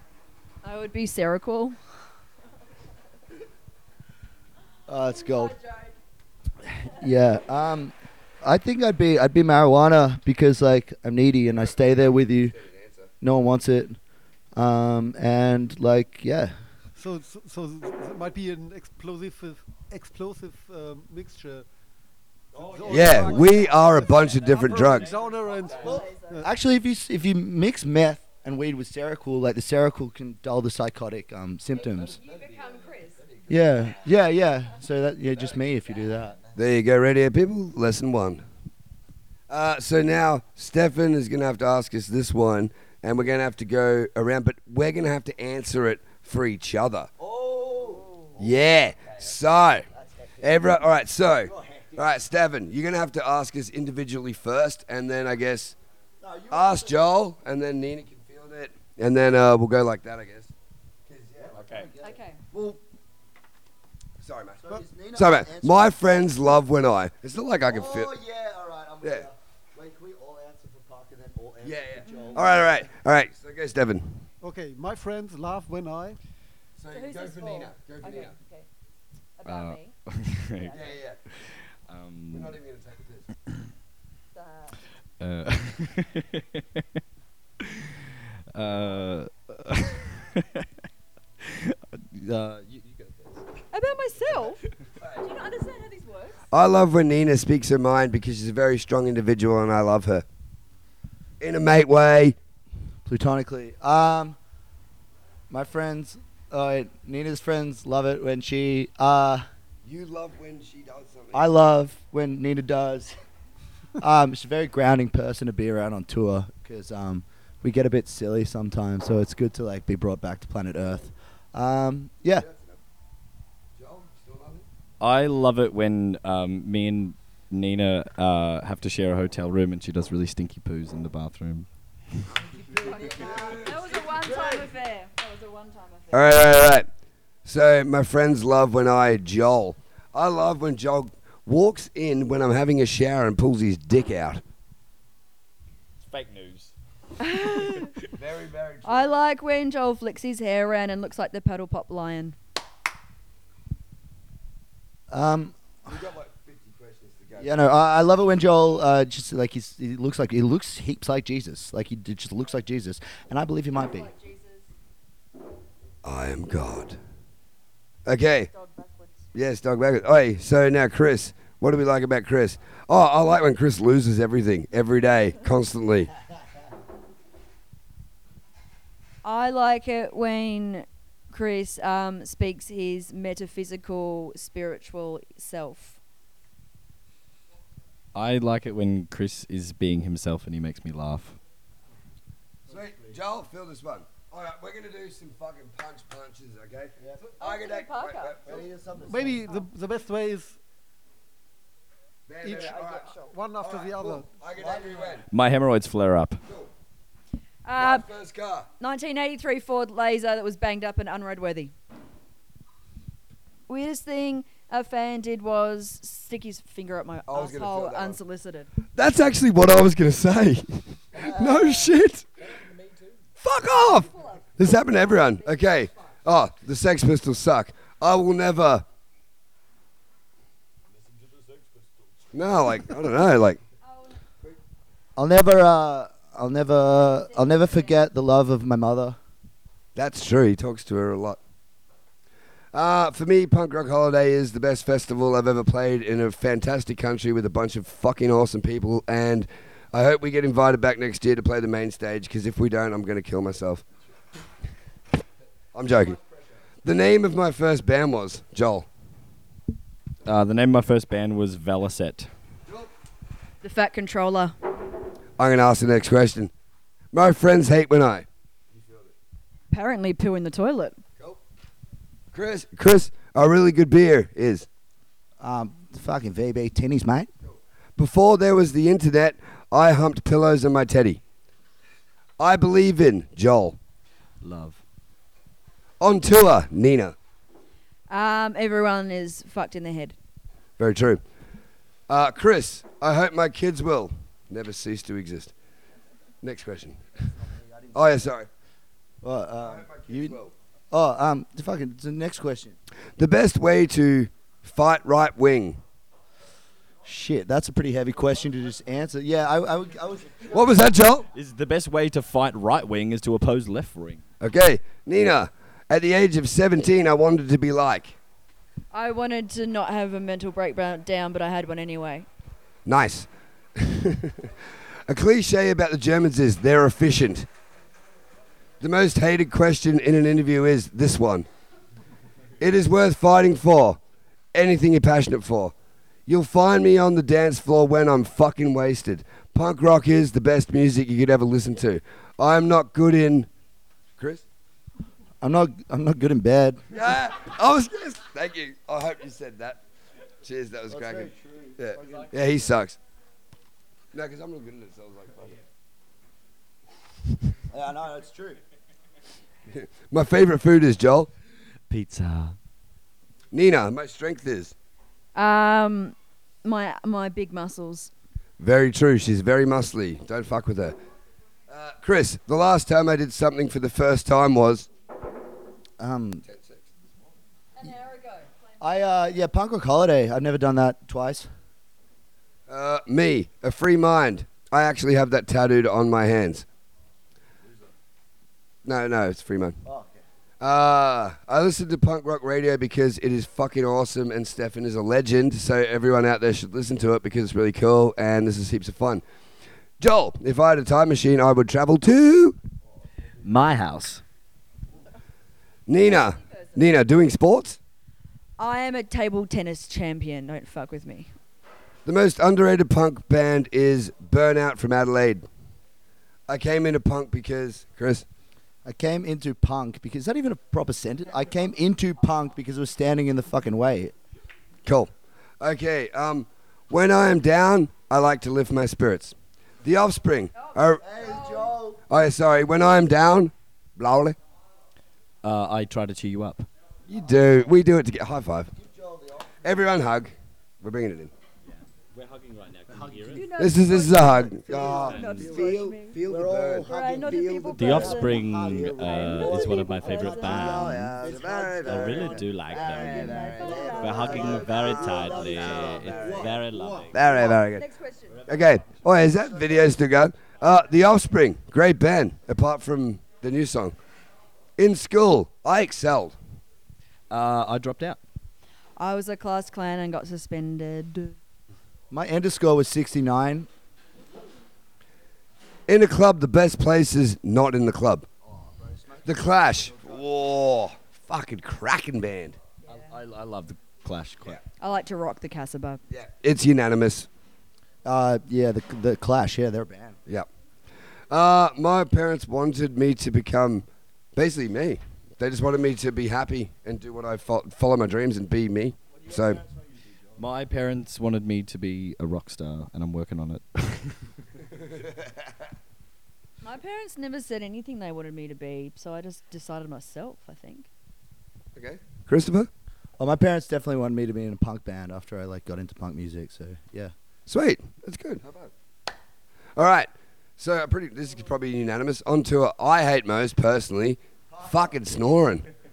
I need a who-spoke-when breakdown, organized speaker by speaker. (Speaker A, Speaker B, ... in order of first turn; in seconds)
Speaker A: 0.6-1.8, 4.9-6.0, 25.6-26.4, 31.7-33.3, 48.0-48.3, 62.0-62.4, 72.1-72.4, 76.9-78.7, 79.4-81.0, 84.3-84.8, 93.7-94.6, 95.2-96.4, 132.8-136.3, 147.2-147.9, 148.8-152.4, 163.7-164.7, 168.5-169.3, 179.2-186.0, 197.4-198.6, 207.7-208.1, 208.8-211.7, 213.7-218.7, 223.7-226.2, 233.8-234.2, 237.1-237.9, 263.6-264.6, 269.7-271.0, 288.1-290.1, 318.9-322.3, 365.4-368.1, 377.8-378.5, 408.6-411.3, 430.6-431.7, 443.3-446.2, 446.8-448.4, 449.0-450.9, 452.8-454.6, 457.2-458.5, 469.0-471.4, 482.8-483.1, 484.8-486.0, 506.6-510.9
Speaker B: 4.9-5.6, 6.8-12.6, 13.2-14.0, 14.6-16.5, 22.6-23.5, 25.9-32.2, 33.5-36.4, 47.2-48.1, 49.9-50.6, 51.5-52.1, 56.2-57.1, 61.4-62.8, 64.6-66.4, 67.6-72.8, 103.0-104.4, 105.5-109.5, 111.3-113.2, 114.0-122.5, 132.8-133.7, 155.1-155.6, 157.4-164.1, 192.7-193.2, 197.0-197.3, 198.4-199.5, 204.5-205.2, 235.2-239.2, 275.4-277.3, 297.4-298.2, 299.2-300.4, 300.9-302.8, 307.0-310.8, 345.4-346.9, 350.9-352.4, 357.7-358.6, 376.0-376.4, 378.8-381.5, 389.8-390.2, 418.9-424.1, 431.0-432.0, 438.8-439.6, 442.9-443.3, 444.7-445.7, 446.2-457.1, 472.1-473.7, 478.5-480.2, 488.1-490.2, 499.2-500.5, 513.2-517.1
Speaker C: 12.3-13.1, 22.9-25.1, 36.5-38.4, 39.5-47.1, 48.4-49.9, 50.4-55.8, 56.5-60.5, 61.1-61.7, 64.2-68.1, 71.6-74.2, 76.8-78.3, 80.7-81.2, 82.3-83.3, 96.5-100.2, 101.4-102.4, 109.8-111.5, 122.4-122.8, 123.8-124.7, 132.7-134.2, 136.1-136.9, 137.4-144.4, 148.1-149.2, 155.9-157.6, 166.0-167.0, 168.1-168.5, 169.3-176.1, 192.7-198.6, 202.3-205.3, 206.5-206.7, 207.8-208.7, 217.3-218.2, 218.9-222.3, 223.4-228.8, 232.3-233.6, 239.9-241.4, 242.7-253.8, 255.7-256.2, 256.8-258.9, 265.4-266.5, 267.1-269.1, 272.3-274.7, 277.4-281.2, 282.4-283.8, 286.0-287.1, 290.8-291.2, 292.1-295.5, 296.4-297.0, 297.9-298.5, 299.6-300.5, 303.2-305.8, 310.5-311.3, 314.4-318.2, 322.9-324.5, 325.1-327.5, 328.8-331.5, 332.6-334.0, 334.5-335.7, 336.3-343.5, 344.2-344.4, 346.9-349.8, 350.4-353.0, 354.1-355.6, 359.7-361.3, 363.5-364.7, 368.6-371.0, 371.7-374.9, 376.4-376.9, 382.7-386.7, 388.9-389.8, 390.6-399.2, 400.0-402.6, 405.9-407.8, 412.1-415.5, 416.5-418.2, 424.9-431.0, 432.1-434.4, 437.1-438.7, 439.6-441.3, 443.6-446.9, 447.8-448.1, 450.5-456.5, 457.1-457.9, 458.5-464.0, 464.8-466.4, 475.9-478.3, 479.2-482.6, 486.1-487.3, 491.3-499.6, 511.8-512.7, 517.5-518.7, 519.8-525.6
Speaker D: 17.0-21.7, 22.6-26.5, 74.4-76.2, 199.1-200.6, 202.4-204.3
Speaker E: 61.5-61.9, 79.5-80.8, 81.3-82.6, 85.2-86.8, 87.6-87.9, 88.5-90.7, 91.4-93.4, 125.0-131.7, 146.1-146.7, 188.2-191.4, 205.3-206.4, 260.2-262.3, 284.4-284.8, 311.3-314.2, 361.9-362.6, 403.4-404.2, 435.4-436.7, 441.7-443.5, 447.7-451.0, 451.8-457.2, 467.3-468.2, 482.9-484.6, 500.4-504.3